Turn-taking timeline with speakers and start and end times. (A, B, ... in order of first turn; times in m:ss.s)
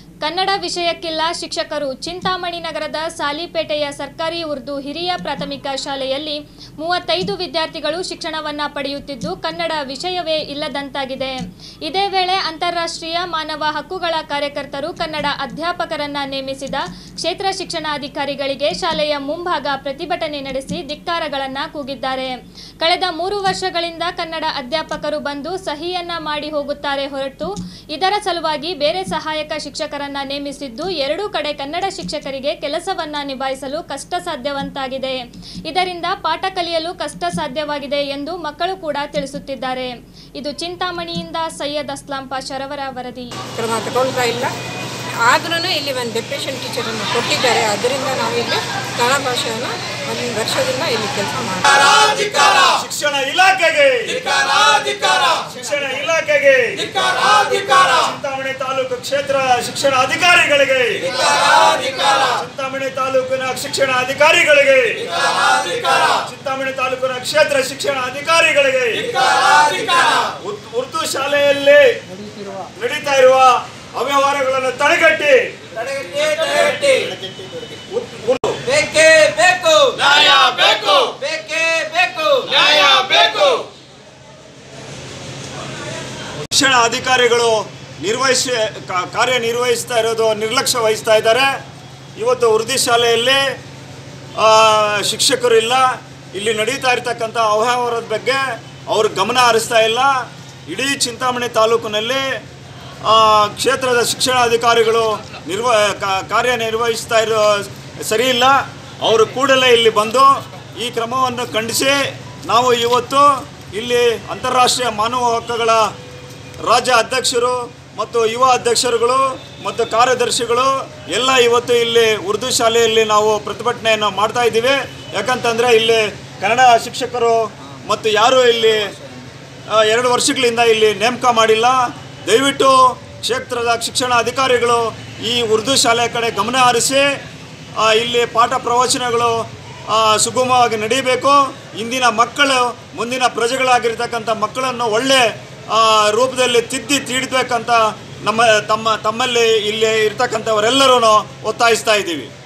0:00.2-0:43.3 A
0:43.6-0:44.5 B
0:45.2-0:52.2 B
0:52.2-1:17.1 C
1:17.9-1:18.6 C
1:18.8-1:20.0 B
1:20.0-1:21.1 C
1:21.1-1:22.5 B
1:22.3-1:23.6 C
1:26.5-1:31.5 C
1:32.2-1:33.4 C
1:34.4-1:40.1 C
1:40.7-1:42.2 C
1:43.0-1:52.0 C
1:52.5-1:55.8 C
1:56.6-2:09.0 C
2:09.7-2:17.0 C
2:17.8-2:19.4 C
2:19.9-2:32.3 C